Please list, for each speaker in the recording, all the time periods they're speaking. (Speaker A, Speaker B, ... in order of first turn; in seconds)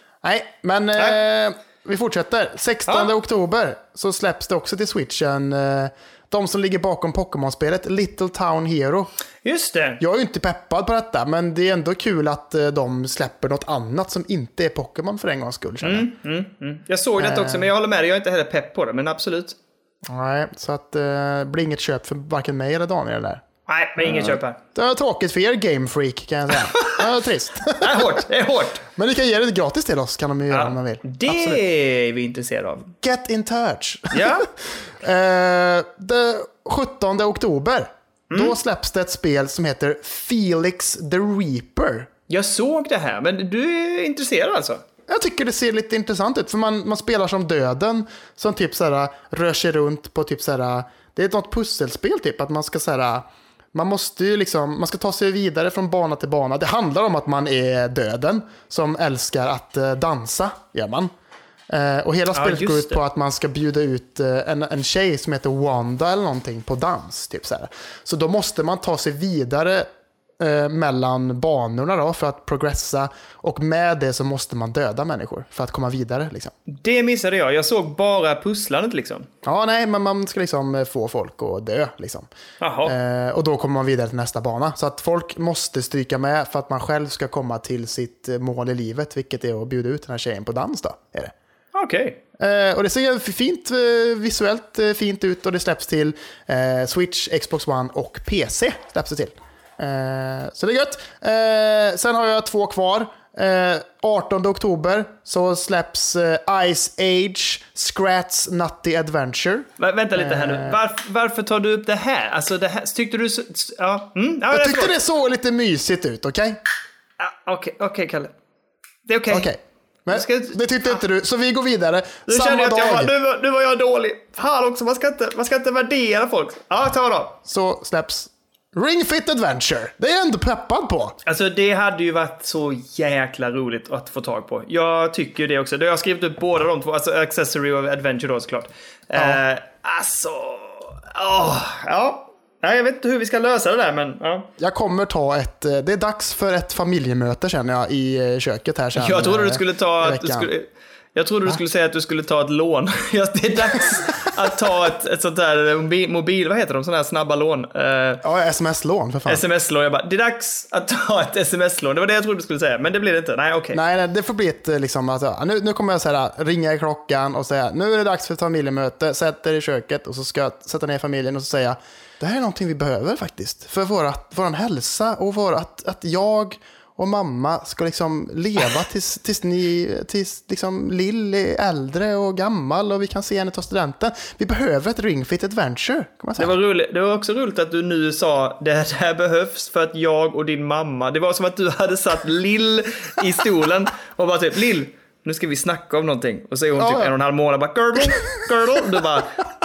Speaker A: 0.2-9.1, 10.0-16.1, 17.2-17.7, 20.1-23.4, 24.0-28.2, 29.0-31.6, 33.0-34.5, 35.0-42.1, 45.1-61.1, 61.7-69.9, 70.4-76.5, 79.4-82.3, 82.8-91.3, 92.4-110.8, 114.5-116.6, 119.3-123.1, 127.5-131.2, 144.6-150.5, 158.2-159.4, 163.7-186.5, 196.8-197.1
Speaker B: 9.4-10.0, 15.8-19.6, 23.7-24.6, 26.8-27.0, 27.8-28.8, 30.5-32.9, 34.1-34.5, 38.3-38.5, 42.3-44.8, 62.3-63.0, 76.7-79.3, 82.6-82.9, 91.7-92.2, 109.8-115.0, 117.2-118.3, 119.1-119.5, 120.1-121.0, 122.3-127.4, 131.2-144.5, 149.0-158.2, 159.3-163.8, 186.4-199.4